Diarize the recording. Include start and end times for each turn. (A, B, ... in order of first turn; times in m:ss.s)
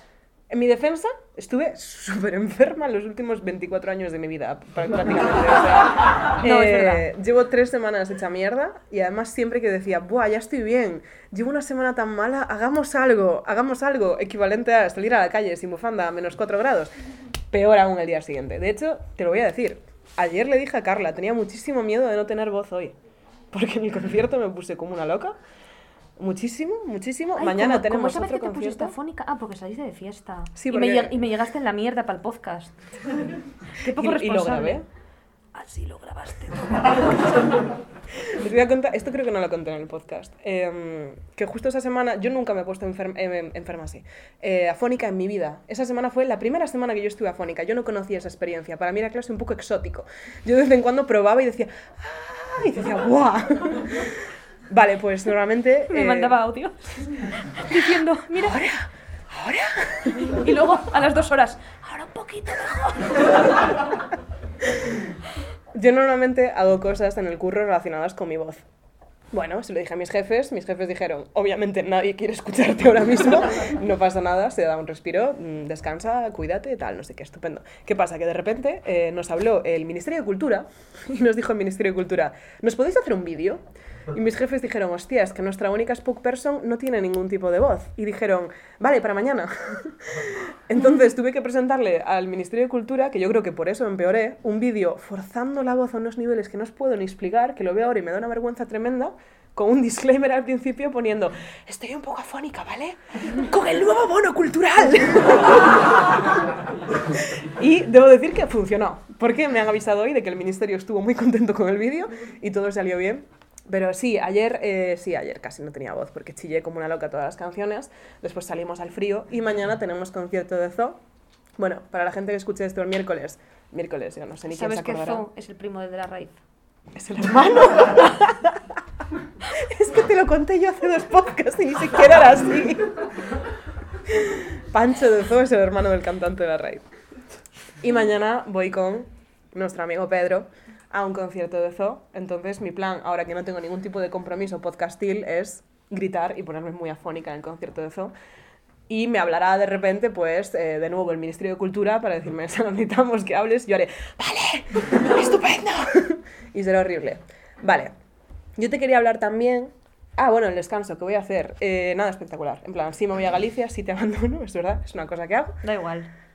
0:00.5-0:16.9 A
0:06.4-0:07.1 B
0:17.5-0:23.0 A
0:23.5-0:25.4 A
0:26.2-0:28.9 A
0:27.4-0:32.8 B
0:30.6-0:31.2 A
0:33.8-0:34.8 B
0:33.8-0:34.8 A
0:35.5-0:37.4 B
0:38.2-0:56.4 A
0:55.9-0:58.6 B
0:58.3-1:00.4 A
1:00.2-1:03.3 B
1:05.7-1:08.6 A
1:09.3-1:46.1 A
1:47.1-2:01.0 A
2:01.6-2:05.2 A
2:04.5-2:06.4 B
2:06.9-2:08.8 A
2:09.5-2:13.0 A
2:14.1-2:16.8 A
2:17.8-2:28.1 A
2:28.9-2:37.9 A
2:38.6-2:45.6 A
2:45.6-2:46.1 B